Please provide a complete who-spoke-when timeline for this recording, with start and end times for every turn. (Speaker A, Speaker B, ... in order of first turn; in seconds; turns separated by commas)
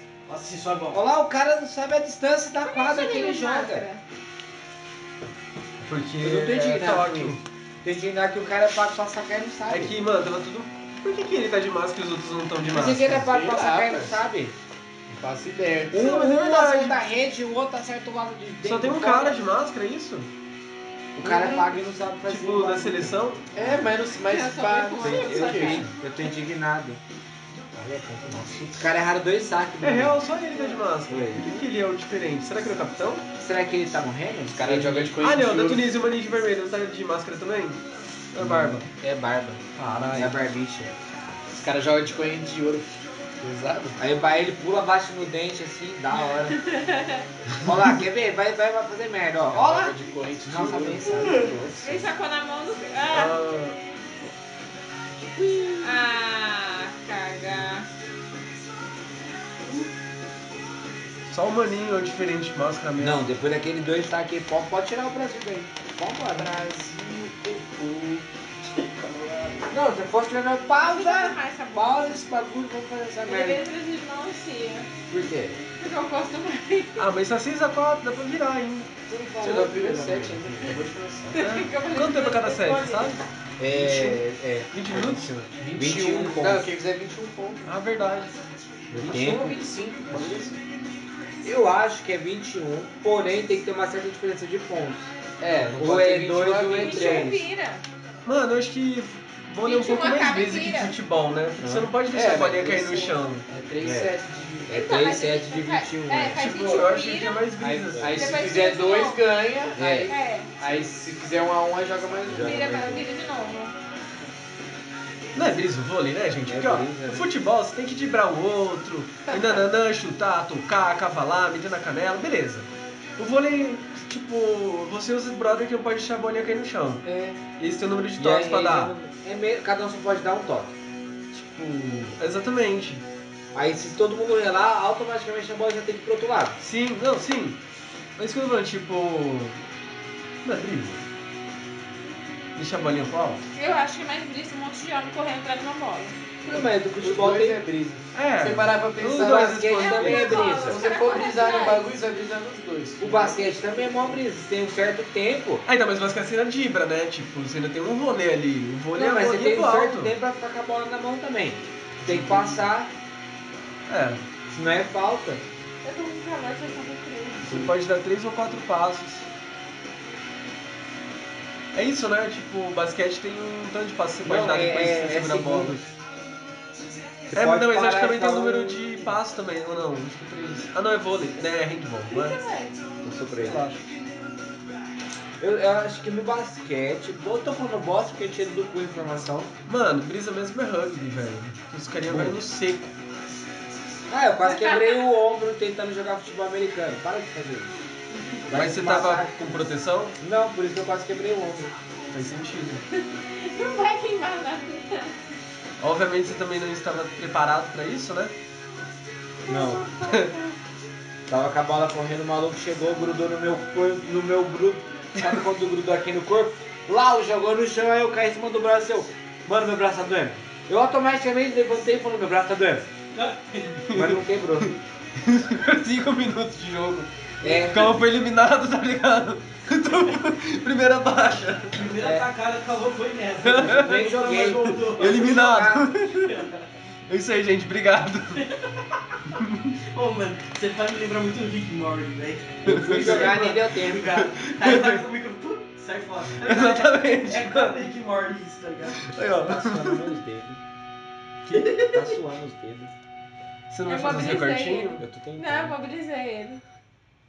Speaker A: 0.2-1.0, Speaker B: 0.9-3.8, Speaker C: 2.6-4.0, Speaker D: 5.8-7.4, Speaker B: 6.2-9.9, Speaker D: 9.7-13.2, Speaker B: 12.7-14.6, Speaker E: 13.0-14.2, Speaker E: 15.1-16.0, Speaker B: 15.9-19.4, Speaker D: 15.9-17.0, Speaker D: 18.6-20.3, Speaker B: 21.1-23.8, Speaker C: 21.2-21.5, Speaker E: 21.4-21.6, Speaker D: 22.2-23.4, Speaker E: 23.5-25.8, Speaker C: 24.2-25.9, Speaker B: 25.0-27.0, Speaker B: 27.7-30.2, Speaker D: 29.8-33.2, Speaker B: 31.1-31.5, Speaker B: 33.4-35.2, Speaker E: 34.5-35.9, Speaker D: 35.2-37.8, Speaker D: 38.3-38.9, Speaker B: 38.4-40.9, Speaker D: 39.7-40.4, Speaker E: 41.5-44.0, Speaker B: 44.0-46.6, Speaker C: 46.4-47.3, Speaker B: 47.6-52.0, Speaker E: 49.5-52.0, Speaker C: 51.8-53.4, Speaker D: 53.1-53.8, Speaker B: 55.4-55.9, Speaker C: 55.8-57.9, Speaker D: 61.3-63.2, Speaker B: 63.0-68.2, Speaker A: 68.8-69.6, Speaker B: 69.7-73.6, Speaker C: 70.8-72.2, Speaker C: 73.2-74.9, Speaker B: 75.1-75.6, Speaker C: 75.8-77.1, Speaker D: 77.0-78.9, Speaker B: 79.1-80.7, Speaker E: 79.4-81.5, Speaker C: 81.3-83.2, Speaker D: 81.3-85.5, Speaker B: 83.6-86.7, Speaker E: 85.6-87.6, Speaker D: 87.6-88.4, Speaker B: 88.9-89.7, Speaker E: 88.9-90.5, Speaker B: 91.4-95.1, Speaker E: 95.4-97.3, Speaker B: 95.8-97.4, Speaker C: 96.7-97.8, Speaker D: 98.2-103.5, Speaker C: 99.6-100.9, Speaker B: 101.6-101.9, Speaker E: 102.1-104.8, Speaker B: 103.8-104.1, Speaker B: 104.7-106.5, Speaker C: 104.7-107.5, Speaker D: 106.3-108.3, Speaker B: 107.6-108.4, Speaker E: 108.0-113.0, Speaker C: 108.1-110.5, Speaker B: 109.7-110.9, Speaker B: 112.2-113.0, Speaker C: 112.4-113.7, Speaker D: 115.3-127.0, Speaker B: 116.5-117.3, Speaker B: 127.0-127.4, Speaker D: 127.6-128.9, Speaker B: 128.2-130.7, Speaker D: 131.3-133.0, Speaker B: 133.5-136.6, Speaker D: 136.6-137.6, Speaker D: 138.2-139.6, Speaker D: 140.4-141.0, Speaker D: 142.6-143.4, Speaker C: 143.5-146.2, Speaker B: 146.4-147.7, Speaker E: 146.5-149.7, Speaker D: 148.1-150.6, Speaker B: 149.1-150.8, Speaker C: 149.7-151.9, Speaker E: 150.4-153.3, Speaker B: 153.0-155.6, Speaker D: 155.7-160.1, Speaker B: 158.9-162.9, Speaker D: 163.9-164.2, Speaker B: 164.5-165.4, Speaker C: 165.8-167.7, Speaker D: 167.4-169.3, Speaker D: 171.7-175.9, Speaker B: 174.2-175.8, Speaker B: 177.3-179.0, Speaker D: 177.3-182.4, Speaker C: 182.1-182.8, Speaker B: 183.0-183.6, Speaker D: 183.4-183.8, Speaker B: 185.4-189.5, Speaker D: 189.7-192.9, Speaker B: 192.1-192.4, Speaker B: 194.1-197.7, Speaker C: 194.4-195.1, Speaker C: 198.1-198.4, Speaker B: 198.5-199.3, Speaker D: 198.5-200.2, Speaker B: 200.2-201.7, Speaker D: 202.1-202.8, Speaker C: 202.9-205.2, Speaker D: 205.8-208.3, Speaker C: 209.4-210.6, Speaker B: 209.5-209.9, Speaker D: 210.0-210.3, Speaker B: 211.3-222.9, Speaker A: 223.1-223.9, Speaker D: 223.8-231.9, Speaker B: 223.9-224.7, Speaker B: 227.4-228.0, Speaker A: 231.7-235.4, Speaker B: 232.0-232.3, Speaker D: 233.4-236.4, Speaker B: 233.6-235.9, Speaker A: 236.2-236.7, Speaker D: 237.1-238.5, Speaker A: 238.3-239.2, Speaker D: 239.3-239.7, Speaker A: 239.9-249.1, Speaker D: 242.6-245.1, Speaker B: 242.7-244.2, Speaker D: 246.3-247.8, Speaker D: 248.9-250.1, Speaker B: 249.4-250.6, Speaker D: 251.4-251.7, Speaker A: 251.5-252.0, Speaker B: 251.8-252.9, Speaker D: 253.7-255.0, Speaker C: 253.8-256.6, Speaker B: 255.0-255.8